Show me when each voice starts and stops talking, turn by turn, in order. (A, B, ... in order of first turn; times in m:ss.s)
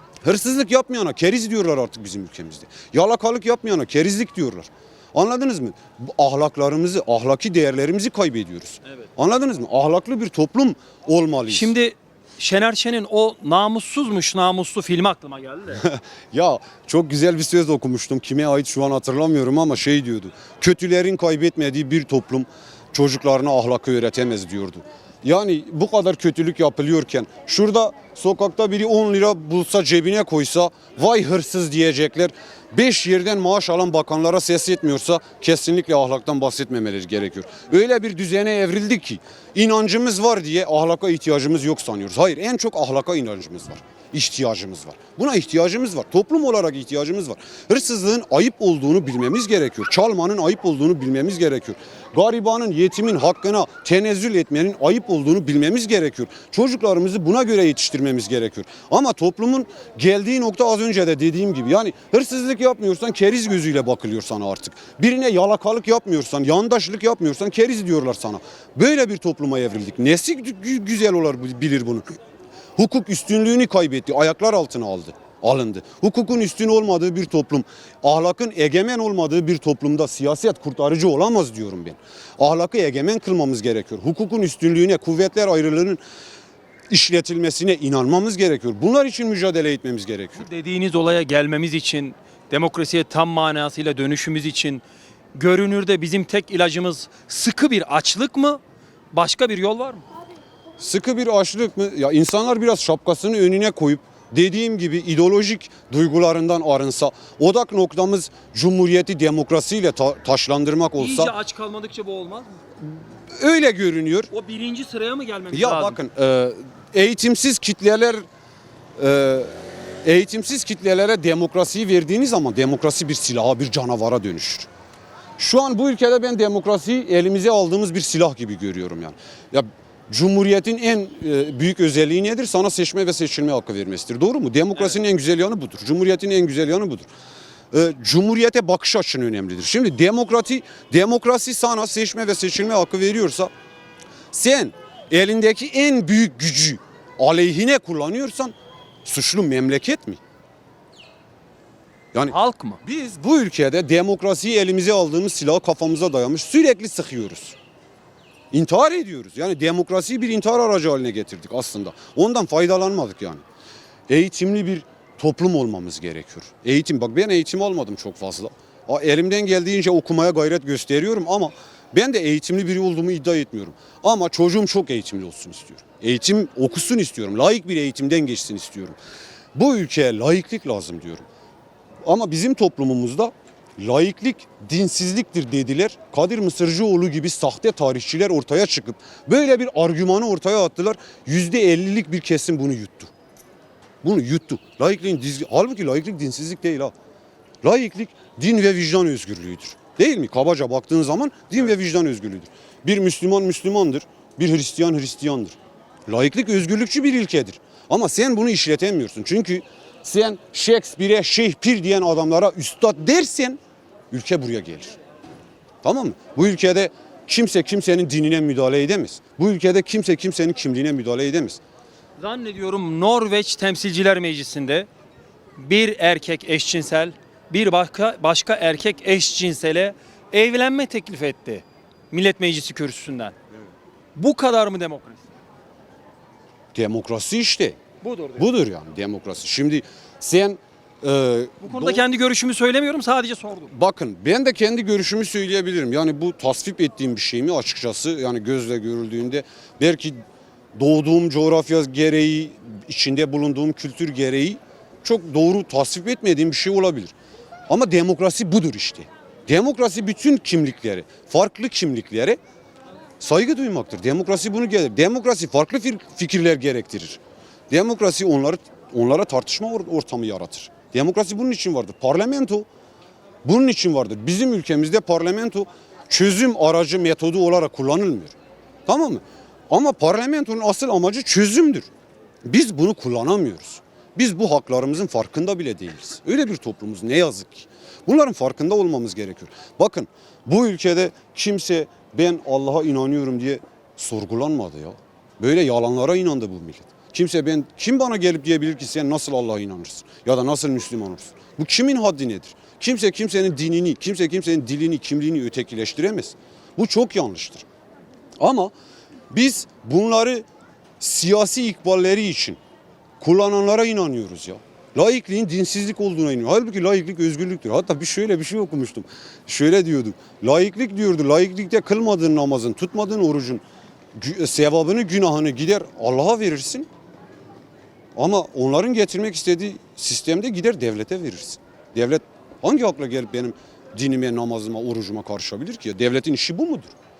0:00.2-0:11.7 A
0:11.5-0:15.8 B
0:15.7-1:12.0 A
1:12.8-1:26.0 A
1:26.9-1:30.5 A
1:30.4-1:34.8 B
1:35.3-1:38.6 B
1:39.1-1:40.0 B
1:40.8-1:51.3 A
1:51.0-1:52.6 B
1:53.3-1:54.3 A
1:54.3-1:56.0 B
1:55.5-1:58.3 A
1:59.0-1:59.5 A
2:00.0-2:04.7 A
2:05.4-2:17.1 A
2:17.7-2:23.5 A
2:24.3-2:30.2 A
2:32.1-2:37.6 A
2:32.3-2:32.8 B
2:38.5-2:43.4 A
2:44.1-2:59.0 A
2:59.6-3:01.3 A
3:02.0-3:13.1 A
3:14.0-3:16.9 A
3:17.6-3:33.6 A
3:34.1-3:35.0 A
3:35.8-3:41.6 A
3:42.2-3:44.9 B
3:45.6-3:53.4 B
3:54.2-3:55.3 B
3:56.7-3:57.8 A
3:58.0-3:58.5 B
3:58.4-4:02.0 A
4:01.6-4:03.7 B
4:03.7-4:10.2 A
4:10.8-4:17.1 A
4:17.7-4:22.4 A
4:23.2-4:32.7 A
4:33.4-4:38.3 A
4:38.9-4:41.9 A
4:42.4-5:07.6 A
5:08.4-5:08.7 A
5:09.3-5:10.5 A
5:11.0-5:12.6 A
5:13.2-5:23.6 A
5:24.2-5:26.9 A
5:28.2-5:36.9 A